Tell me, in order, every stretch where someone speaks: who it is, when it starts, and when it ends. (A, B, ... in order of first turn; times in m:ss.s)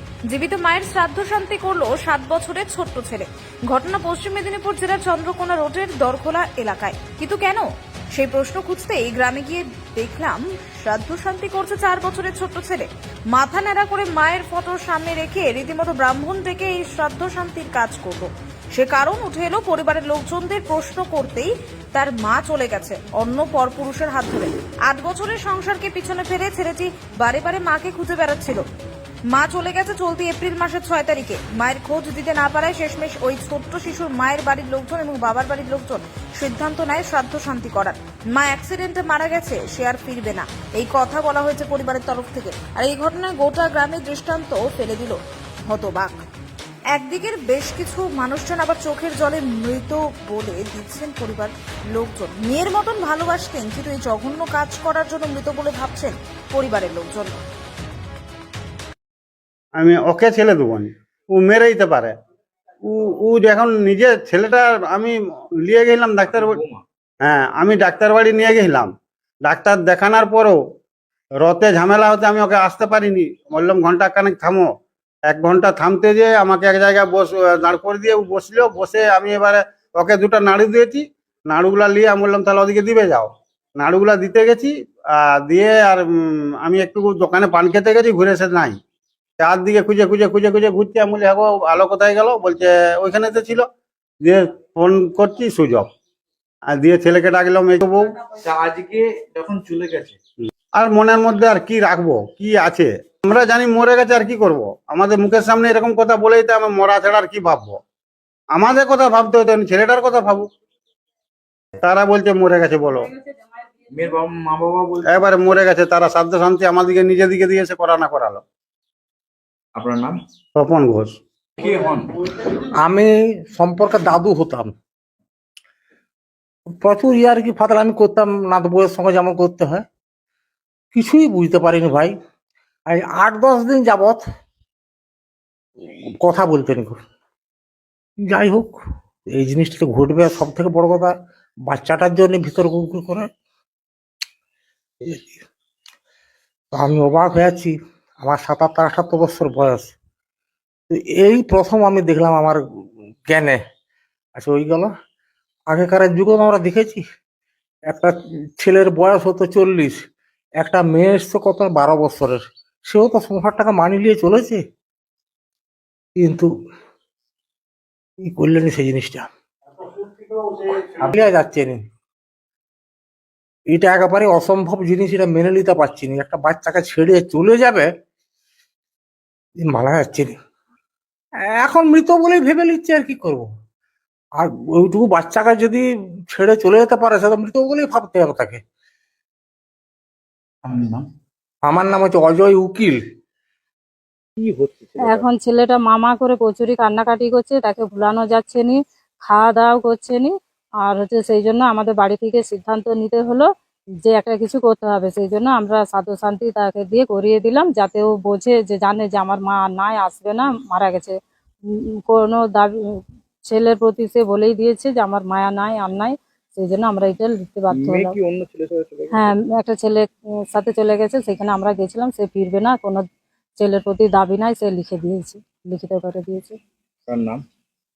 0:00.3-0:28.6 A
0:29.3-0:46.1 A
0:46.9-0:57.4 A
0:59.8-1:02.1 B
1:02.8-1:06.6 B
1:06.3-1:06.8 C
1:07.2-1:08.9 B
1:09.4-1:10.6 B
1:11.4-1:14.7 B
1:15.3-1:26.1 B
1:26.6-1:28.8 B
1:29.4-1:33.7 B
1:34.2-1:35.9 B
1:36.7-1:38.0 B
1:38.4-1:40.2 C
1:40.8-1:47.7 B
1:48.5-1:50.5 B
1:51.8-1:53.0 B
1:53.9-1:55.2 C
1:55.1-1:58.4 B
1:59.7-2:00.2 C
2:00.6-2:01.1 B
2:01.6-2:02.2 C
2:02.5-2:04.7 D
2:06.8-2:09.8 D
2:10.9-2:12.1 D
2:12.9-2:14.2 D
2:16.2-2:17.0 D
2:18.2-2:18.8 D
2:19.3-2:21.1 D
2:21.7-2:23.3 D
2:25.0-2:25.3 D
2:26.7-2:29.9 D
2:30.9-2:32.6 D
2:33.3-2:33.6 D
2:34.4-2:34.9 D
2:35.7-2:37.0 D
2:37.9-2:40.0 D
2:40.6-2:44.6 D
2:46.2-2:46.5 D
2:48.2-2:49.3 D
2:49.8-2:51.8 D
2:53.7-2:57.9 D
2:59.7-3:00.3 D
3:01.5-3:03.4 D
3:04.4-3:08.6 D
3:10.6-3:11.0 C
3:11.6-3:13.0 D
3:14.4-3:15.2 C
3:15.0-3:23.5 E
3:24.0-3:31.2 E
3:32.1-3:38.2 E
3:37.7-3:39.3 C
3:39.1-3:43.0 E
3:43.6-3:46.6 E
3:47.0-3:47.4 C